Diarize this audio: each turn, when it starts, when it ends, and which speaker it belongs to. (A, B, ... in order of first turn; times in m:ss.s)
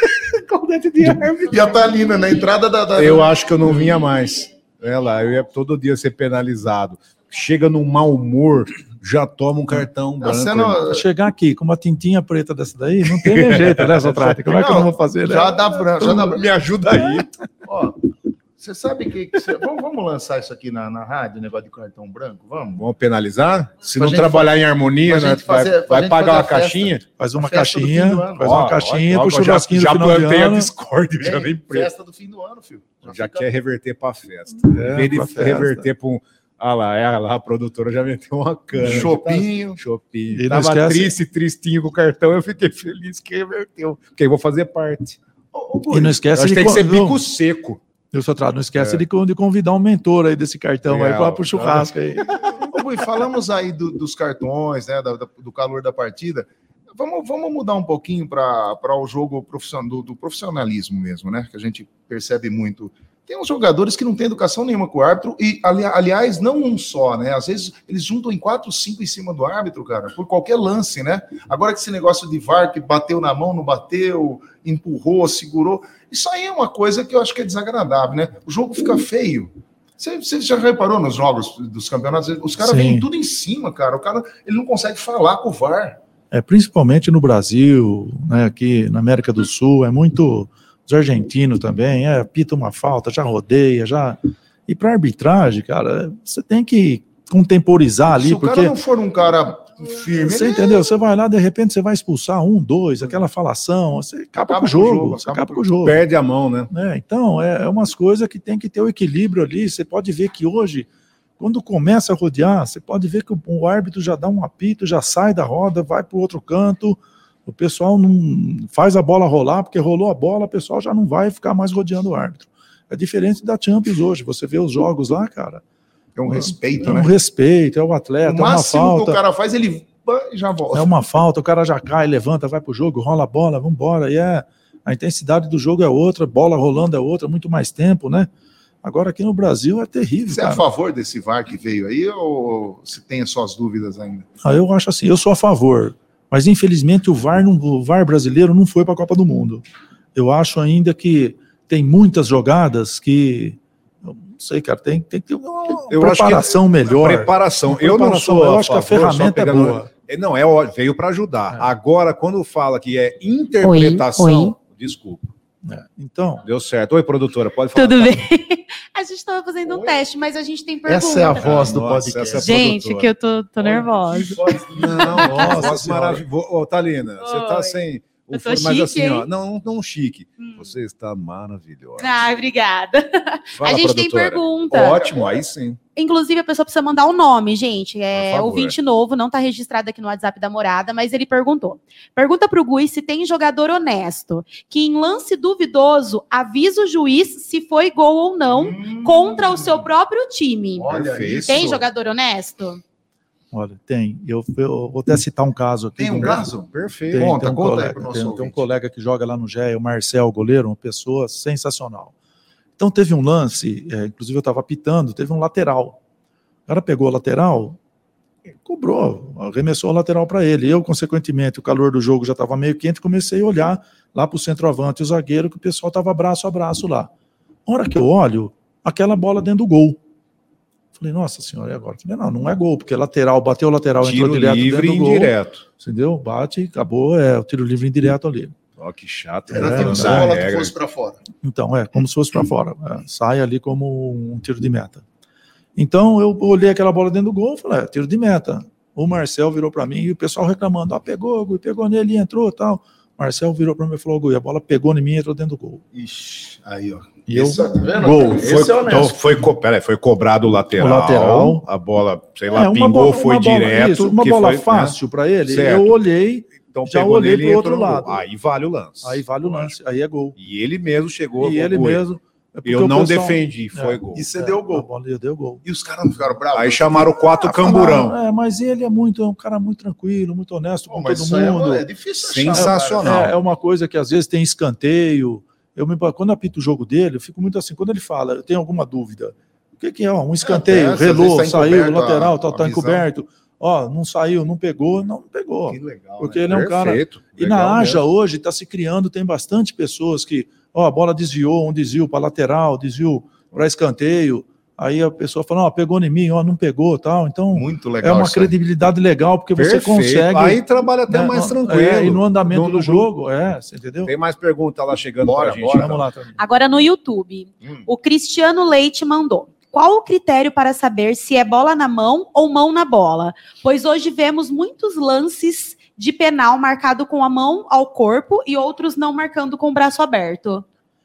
0:00.5-0:01.4 A
0:01.0-0:01.3 B
0:01.2-0:04.0 C
0:02.9-0:10.9 A
0:10.2-0:11.0 C
0:10.9-0:15.6 B
0:13.2-0:14.3 A
0:14.4-0:16.4 C
0:16.0-0:17.3 A
0:17.6-0:18.0 C
0:18.6-0:22.8 C
0:22.8-0:27.0 A
0:24.0-0:28.6 C
0:27.2-0:30.7 B
0:28.4-0:31.9 A
0:31.2-0:33.5 C
0:33.1-0:45.2 A
0:34.7-0:35.9 B
0:38.8-0:39.8 C
0:40.3-0:41.1 B
0:45.5-0:46.2 C
0:45.9-0:47.2 B
0:46.3-0:47.8 A
0:48.1-0:52.5 B
0:48.8-0:49.0 A
0:50.8-0:52.5 A
0:52.5-1:26.0 C
1:22.6-1:23.0 B
1:26.3-1:38.7 B
1:38.1-1:40.9 C
1:40.2-1:46.0 B
1:44.4-1:45.6 C
1:45.8-1:46.7 A
1:46.7-1:50.9 B
1:51.4-2:05.6 B
2:06.2-2:07.1 C
2:06.3-2:09.2 B
2:08.2-2:10.9 C
2:10.7-2:18.3 B
2:18.8-2:20.6 B
2:20.3-2:24.3 C
2:24.4-2:29.6 B
2:30.1-2:39.9 B
2:35.9-2:45.3 A
2:43.7-2:44.5 D
2:45.6-2:46.4 B
2:46.4-2:48.2 A
2:47.7-2:51.8 D
2:49.7-2:49.9 C
2:50.8-2:52.6 C
2:51.4-2:53.1 A
2:52.3-2:55.5 D
2:53.6-3:02.2 A
2:54.2-2:55.1 C
2:55.1-2:56.2 B
2:57.2-2:59.3 D
3:00.4-3:00.6 D
3:02.0-3:05.0 D
3:03.5-3:05.8 A
3:06.0-3:22.8 D
3:08.1-3:08.7 A
3:18.5-3:19.8 C
3:20.8-3:21.8 C
3:20.9-3:21.8 A
3:23.5-3:26.5 B
3:26.0-3:28.6 C
3:26.2-3:27.4 A
3:27.1-3:32.1 B
3:32.8-3:36.0 B
3:36.7-3:37.8 B
3:38.6-3:47.1 B
3:47.7-3:50.0 B
3:51.0-3:58.5 B
3:54.0-3:55.6 A
3:58.8-4:00.7 A
3:59.5-4:00.3 B
3:59.5-4:01.2 C
4:01.4-4:05.0 B
4:05.8-4:15.8 B
4:15.9-4:19.2 C
4:17.3-4:18.8 B
4:18.3-4:26.0 A
4:20.7-4:21.6 B
4:22.5-4:28.2 B
4:26.5-4:29.7 A
4:29.0-4:30.4 B
4:30.4-4:32.0 A
4:31.4-4:35.6 B
4:32.6-4:34.3 A
4:34.1-4:34.8 C
4:35.6-4:37.2 C
4:36.5-4:38.2 A
4:37.4-4:41.8 B
4:40.9-4:43.2 C
4:42.2-4:43.3 A
4:42.5-5:14.1 B
4:50.4-4:53.0 C
4:55.7-4:56.5 C
4:56.5-4:58.0 A
5:07.5-5:08.5 C
5:09.6-5:13.1 A
5:14.0-5:16.0 A
5:15.2-5:16.0 C
5:15.7-5:16.4 B
5:16.4-5:30.6 D